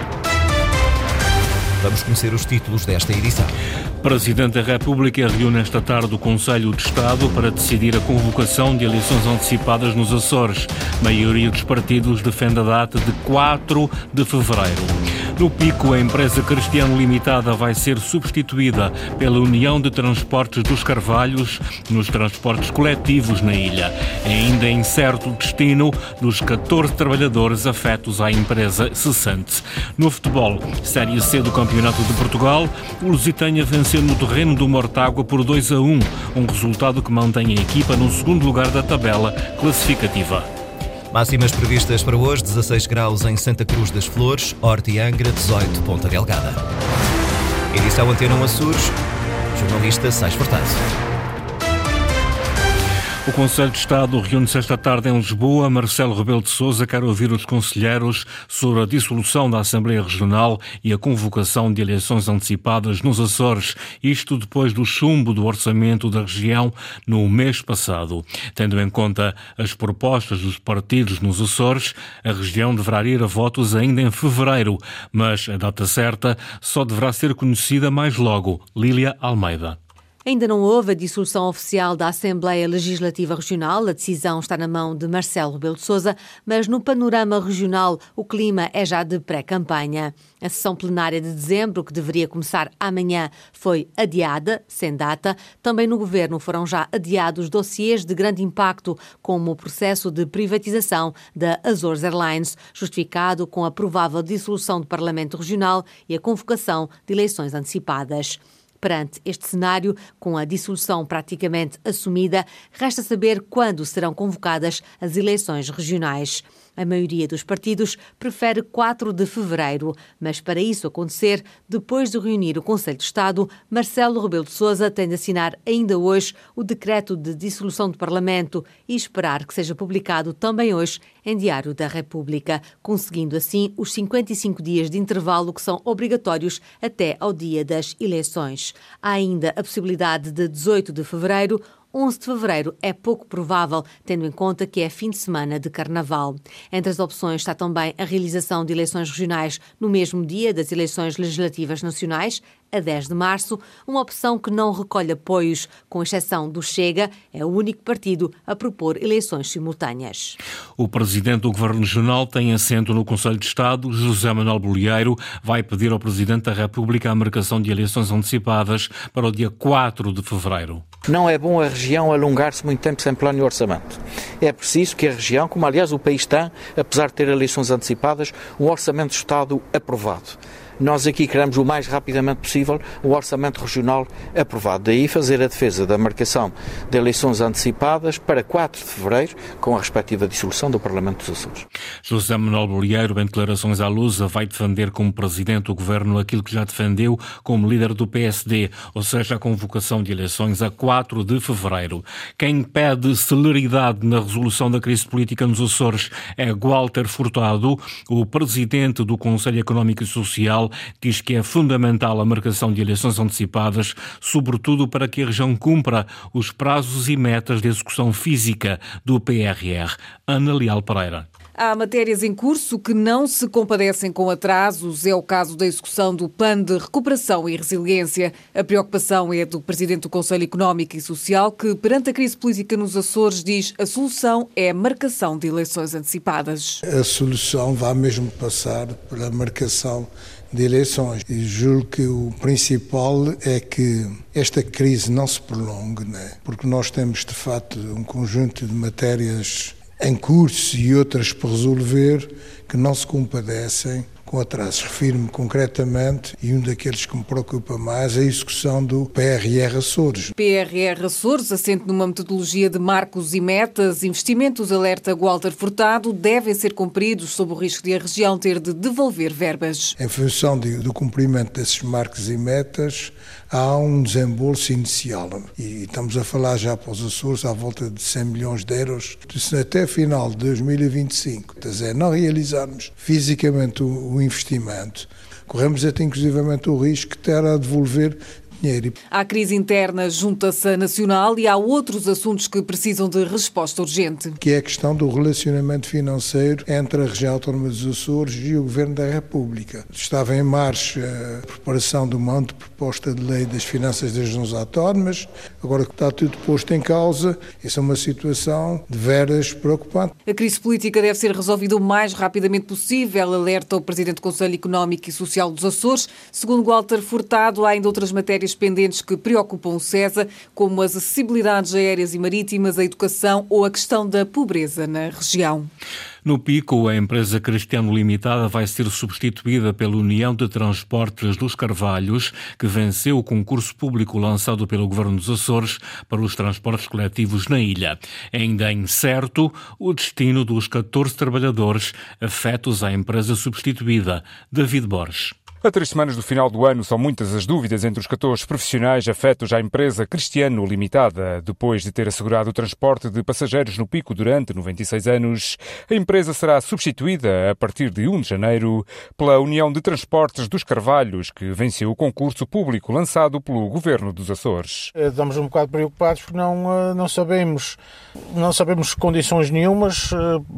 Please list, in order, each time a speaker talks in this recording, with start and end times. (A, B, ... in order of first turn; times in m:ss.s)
0:01.8-0:03.5 A
0:04.0-0:40.5 B
0:41.1-0:46.6 A
0:47.7-0:49.0 A
0:49.5-0:50.8 A
0:53.2-1:19.8 B
1:20.2-2:40.4 C
2:40.8-2:50.8 B
2:51.1-3:11.6 D
3:12.0-3:41.3 B
3:41.6-3:56.8 E
3:56.8-4:20.3 F
4:20.4-4:29.9 E
4:30.0-4:48.9 F
4:49.1-4:54.4 E
4:54.4-5:10.1 F
5:10.3-5:25.7 E
5:26.2-5:45.3 B
5:45.6-6:04.9 G
6:05.0-6:07.8 H
6:08.3-6:10.4 H